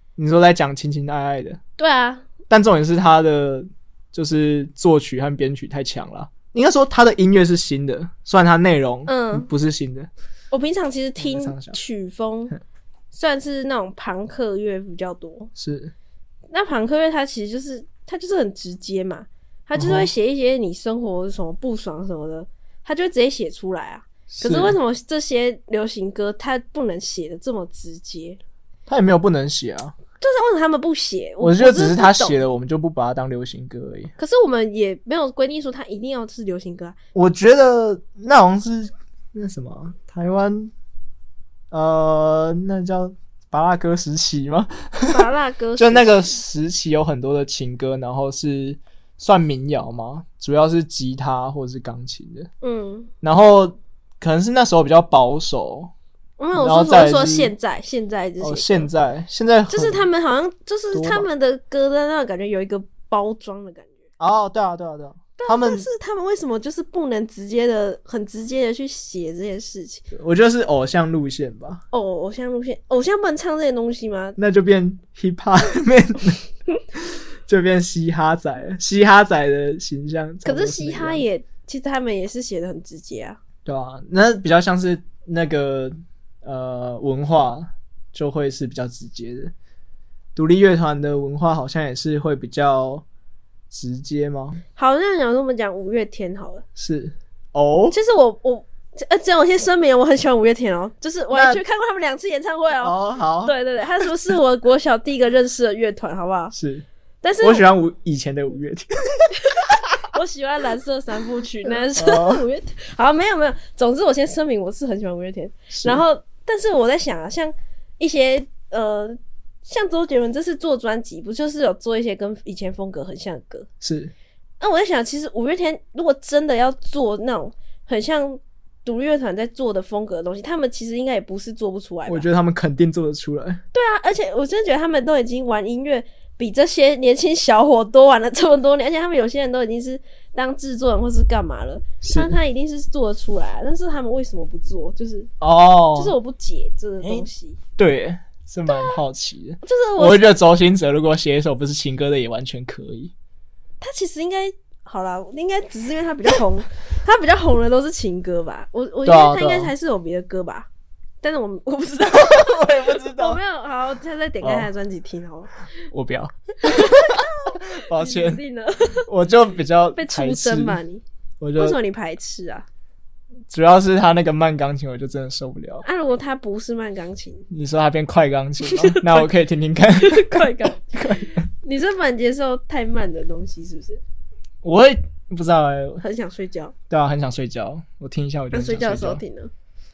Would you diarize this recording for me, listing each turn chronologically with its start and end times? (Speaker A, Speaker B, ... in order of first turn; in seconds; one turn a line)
Speaker A: 0.2-1.6
Speaker B: 1.8-2.3
Speaker A: 2.5-10.1
Speaker B: 9.1-9.5
Speaker B: 10.5-12.5
Speaker A: 11.2-11.8
Speaker B: 13.1-15.5
Speaker A: 15.6-15.9
Speaker B: 16.5-28.4
Speaker A: 19.8-20.1
Speaker A: 24.3-24.8
Speaker A: 28.9-29.9
Speaker B: 30.2-32.4
Speaker A: 31.4-34.1
Speaker B: 34.2-37.0
Speaker A: 37.1-40.7
Speaker A: 41.7-52.5
Speaker B: 45.1-46.3
Speaker B: 52.6-53.1
Speaker A: 53.2-55.9
Speaker B: 56.4-58.9
Speaker A: 56.5-57.5
Speaker A: 58.4-60.1
Speaker B: 59.7-64.0
Speaker A: 60.9-61.3
Speaker A: 64.2-65.9
Speaker B: 65.4-70.0
Speaker A: 70.1-71.8
Speaker B: 71.9-74.4
Speaker A: 74.4-76.4
Speaker A: 76.9-81.2
Speaker B: 80.4-83.4
Speaker A: 83.6-89.5
Speaker A: 90.3-93.0
Speaker A: 93.7-94.6
Speaker B: 94.8-96.6
Speaker A: 96.8-98.0
Speaker B: 97.9-106.5
Speaker A: 101.3-101.6
Speaker A: 102.8-104.1
Speaker A: 106.5-106.8
Speaker B: 107.2-107.6
Speaker A: 107.4-109.8
Speaker B: 109.4-123.7
Speaker A: 111.9-112.4
Speaker A: 115.7-116.0
Speaker A: 123.8-124.1
Speaker B: 124.6-132.2
Speaker A: 132.1-133.6
Speaker B: 133.7-145.3
Speaker A: 142.0-142.4
Speaker A: 145.4-146.2
Speaker B: 145.9-147.6
Speaker A: 147.0-153.1
Speaker B: 148.7-149.0
Speaker B: 149.6-150.3
Speaker B: 153.8-160.7
Speaker A: 159.0-159.7
Speaker B: 161.2-165.5
Speaker A: 162.1-163.4
Speaker A: 164.4-164.7
Speaker A: 165.9-168.4
Speaker B: 166.6-169.1
Speaker A: 169.0-170.8
Speaker B: 169.9-171.0
Speaker A: 171.4-171.8
Speaker B: 171.6-172.7
Speaker A: 173.5-175.8
Speaker B: 175.8-177.5
Speaker A: 177.5-181.5
Speaker B: 178.6-179.3
Speaker B: 180.0-180.9
Speaker B: 181.6-184.0
Speaker A: 184.6-186.0
Speaker B: 186.0-186.7
Speaker A: 186.9-189.2
Speaker B: 188.5-189.5